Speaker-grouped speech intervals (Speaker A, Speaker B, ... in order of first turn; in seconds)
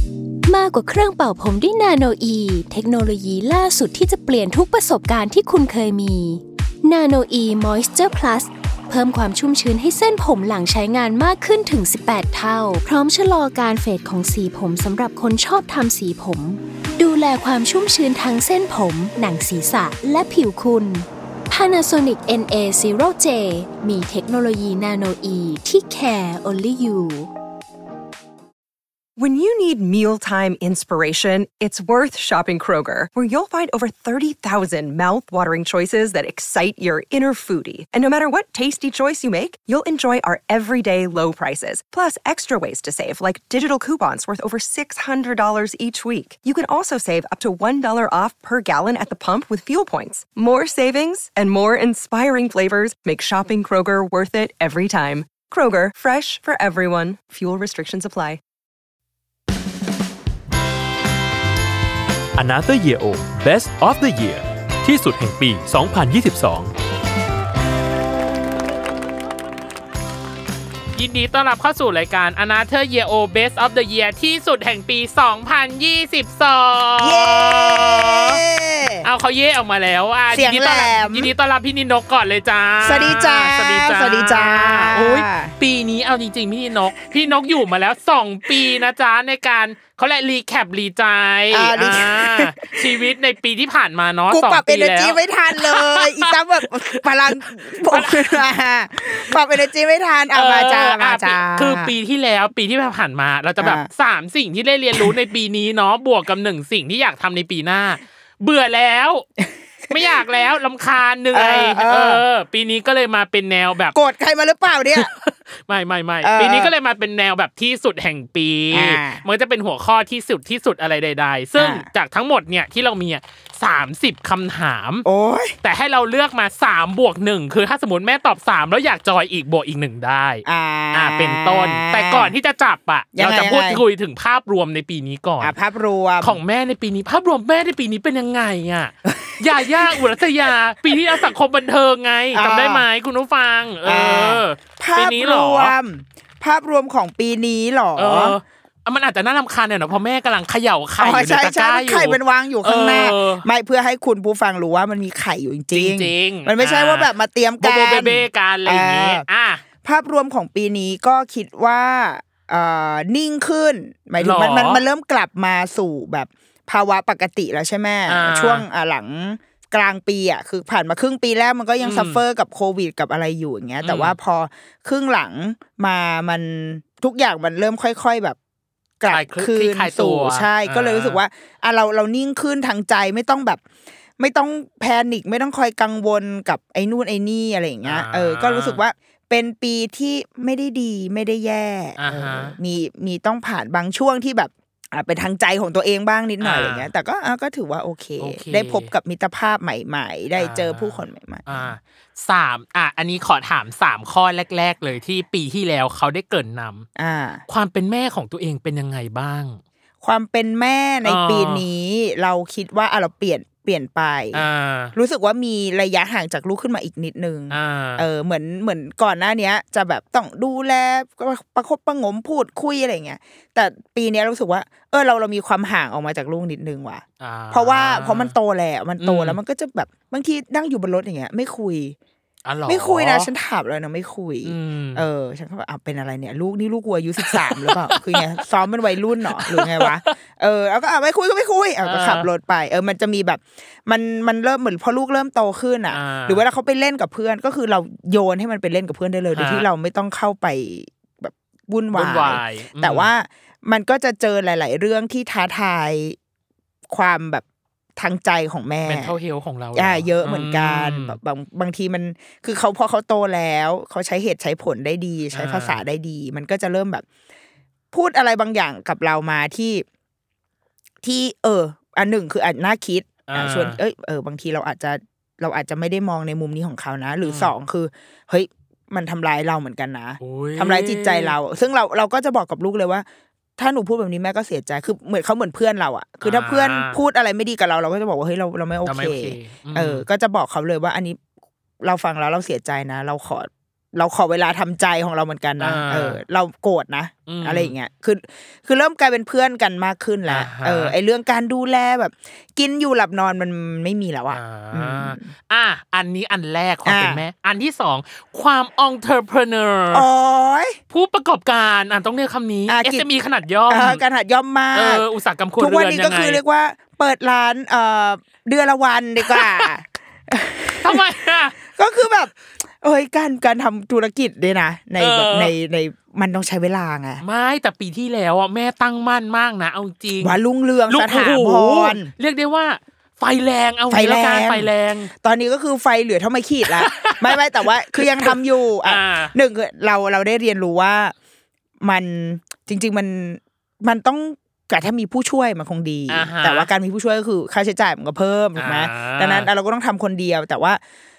Speaker A: 0.5-27.3
Speaker B: 29.1-58.4
Speaker C: 62.4-66.7
Speaker D: 70.9-78.4, 79.0-98.4, 100.3-109.2, 109.9-114.0, 114.9-125.0, 125.6-135.5, 136.2-145.7, 147.9-153.4, 155.7-159.6, 164.2-164.8, 168.1-168.7, 171.8-172.2, 173.8-174.2, 179.1-181.2, 187.8-188.8, 192.0-192.6, 196.4-196.9, 198.2-198.9, 200.4-206.8, 207.5-209.6, 211.0-211.6, 214.3-214.9, 217.5-218.1, 227.2-228.3, 229.0-229.4, 232.4-233.3, 234.4-235.1, 237.2-238.2, 239.2-240.1, 241.8-242.3, 245.9-246.4, 249.3-249.7, 251.9-253.1, 258.8-261.2, 265.3-265.8, 273.3-273.8, 277.2-277.5, 280.2-281.4, 286.2-287.0, 288.8-290.1, 295.6-296.2, 297.3-297.7, 300.3-300.9, 304.3-310.1, 310.9-314.0, 314.7-316.4, 319.2-319.7, 320.8-321.6, 325.0-325.5, 327.2-335.1, 336.7-339.3, 346.1-346.7, 348.6-349.5
Speaker E: 77.0-79.0, 80.3-81.3, 82.8-85.5, 91.5-92.9, 94.3-101.9, 103.6-103.9, 111.3-112.2, 113.9-115.1, 116.2-116.7, 118.7-119.2, 121.5-121.8, 125.0-125.6, 130.4-132.3, 133.1-133.8, 135.4-136.4, 139.1-140.1, 140.9-141.2, 142.3-142.8, 143.8-148.4, 151.0-159.2, 159.8-178.4, 179.0-183.6, 184.2-201.6, 206.9-207.4, 210.0-214.4, 214.9-231.9, 232.7-256.2, 256.9-257.4, 257.9-259.1, 259.7-267.0, 267.9-269.8, 271.0-283.1, 283.6-291.2, 291.8-305.3, 306.8-307.2, 309.9-310.8, 312.7-313.1, 313.7-315.0, 315.6-321.0, 321.6-327.2, 330.2-332.1, 333.9-341.1, 341.8-350.8